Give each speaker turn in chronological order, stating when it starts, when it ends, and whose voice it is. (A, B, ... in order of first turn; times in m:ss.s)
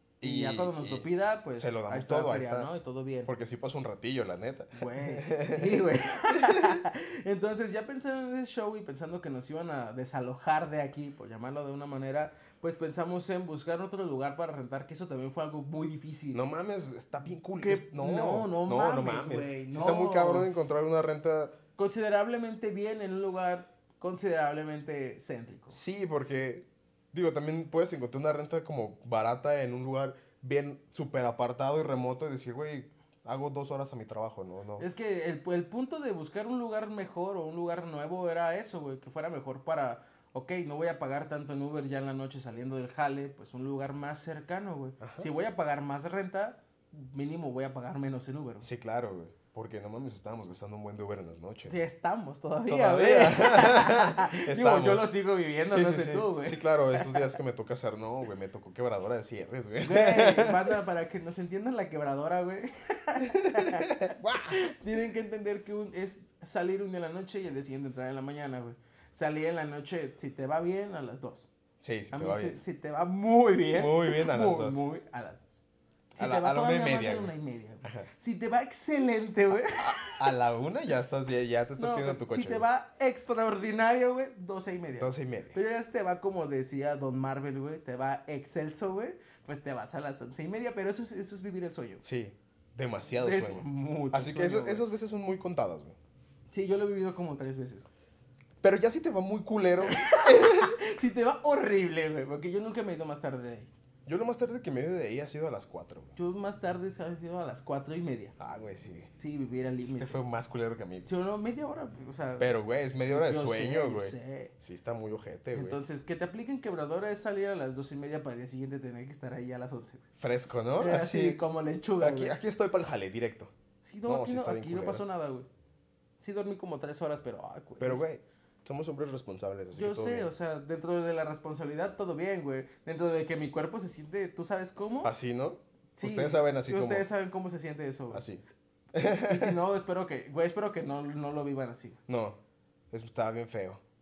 0:00.2-0:02.7 A
0:00.2-0:03.3 B
0:03.3-0:06.8 A
0:04.8-0:16.4 B
0:16.3-0:21.5 A
0:17.6-0:20.5 B
0:21.8-0:25.8 B
0:25.7-0:34.8 A
0:34.8-0:48.7 B
0:45.0-0:45.3 A
0:48.6-0:51.8 A
0:51.7-0:57.3 B
0:52.7-0:55.1 A
0:55.7-1:00.8 A
0:59.8-1:03.9 B
1:03.2-1:04.6 A
1:04.4-1:11.5 B
1:11.8-1:12.6 A
1:12.1-1:15.6 B
1:13.8-1:14.8 A
1:16.2-1:20.2 B
1:16.2-1:18.1 A
1:19.8-1:22.6 A
1:21.8-1:32.0 B
1:25.0-1:25.6 A
1:32.0-1:36.0 A
1:33.2-1:34.8 B
1:36.5-1:37.9 B
1:38.6-1:40.8 A
1:39.8-1:43.7 B
1:44.1-1:46.1 A
1:46.2-1:48.4 B
1:48.4-1:49.1 A
1:49.2-1:50.2 B
1:49.8-1:51.1 A
1:51.1-1:52.5 B
1:52.4-1:55.8 A
1:53.1-1:54.5 B
1:55.5-2:00.0 B
2:00.2-2:01.4 A
2:00.8-2:02.4 B
2:02.0-2:03.5 A
2:03.8-2:05.5 B
2:04.1-2:05.0 A
2:06.2-2:08.0 B
2:07.8-2:10.3 A
2:09.7-2:15.1 B
2:15.0-2:17.1 A
2:16.0-2:18.2 B
2:18.1-2:18.4 A
2:18.9-2:19.6 A
2:19.2-2:22.0 B
2:22.1-2:22.4 A
2:22.9-2:23.8 A